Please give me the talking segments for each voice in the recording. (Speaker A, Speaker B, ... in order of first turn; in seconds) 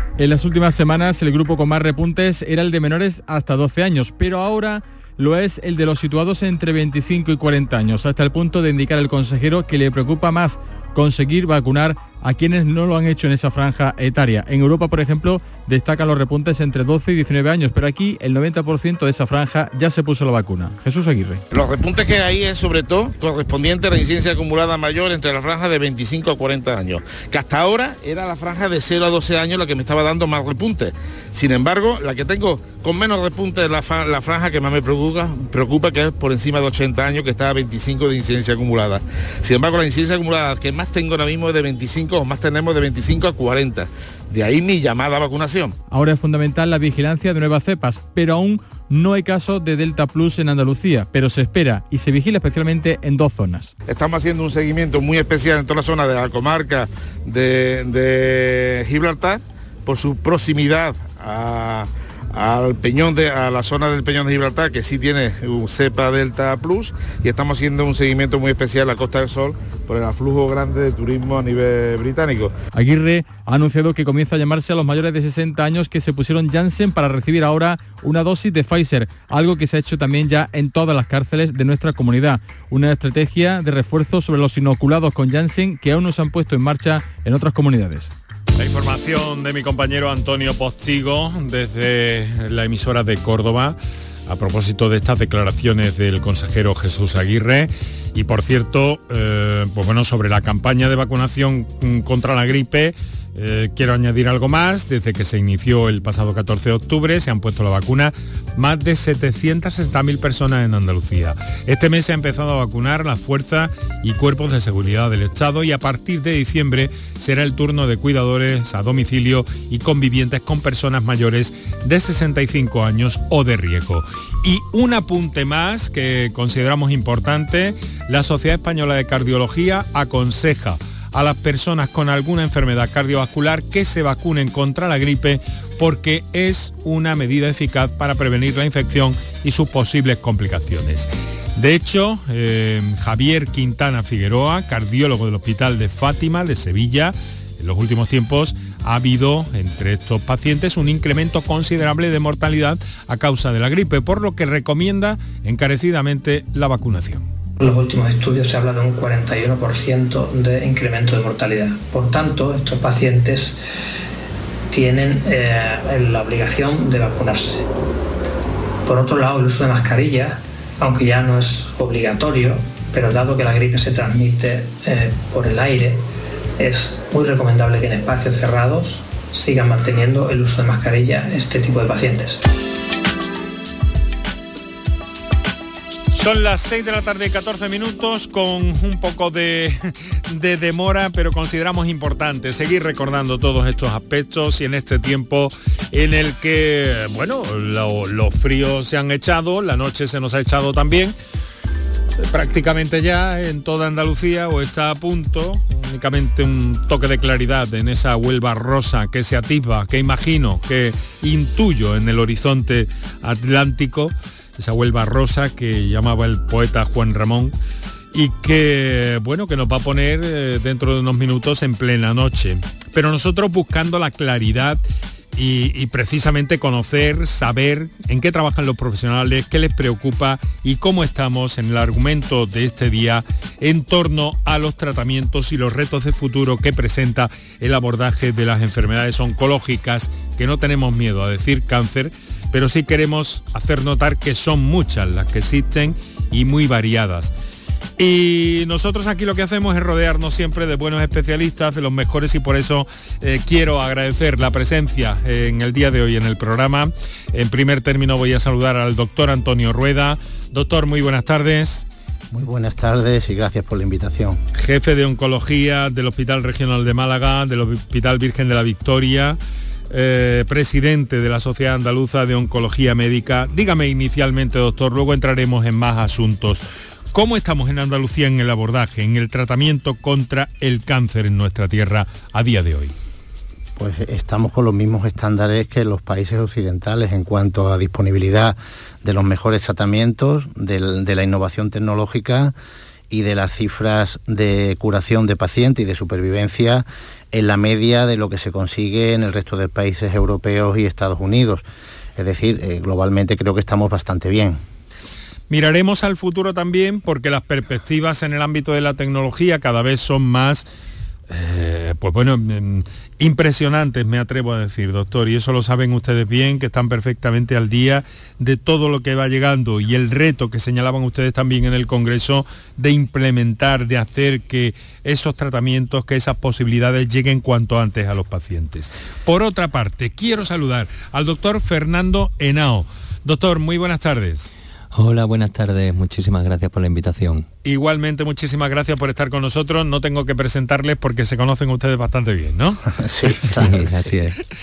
Speaker A: 0.2-21.4, 45.9-53.7, 72.7-88.1
Speaker B: 21.5-45.8, 53.9-72.6
Speaker C: 88.6-157.3, 186.1-201.1, 202.2-217.6, 218.1-224.8, 225.3-247.3, 248.0-261.9, 264.6-269.4, 269.9-282.9, 305.5-310.6, 311.3-334.5, 337.6-342.8
Speaker D: 157.6-163.6, 164.7-167.7, 168.8-176.1, 176.6-182.4
Speaker E: 262.3-264.4, 283.8-292.5, 293.1-301.6, 302.2-304.6, 343.0-343.9
Speaker F: 334.9-337.5, 343.4-344.4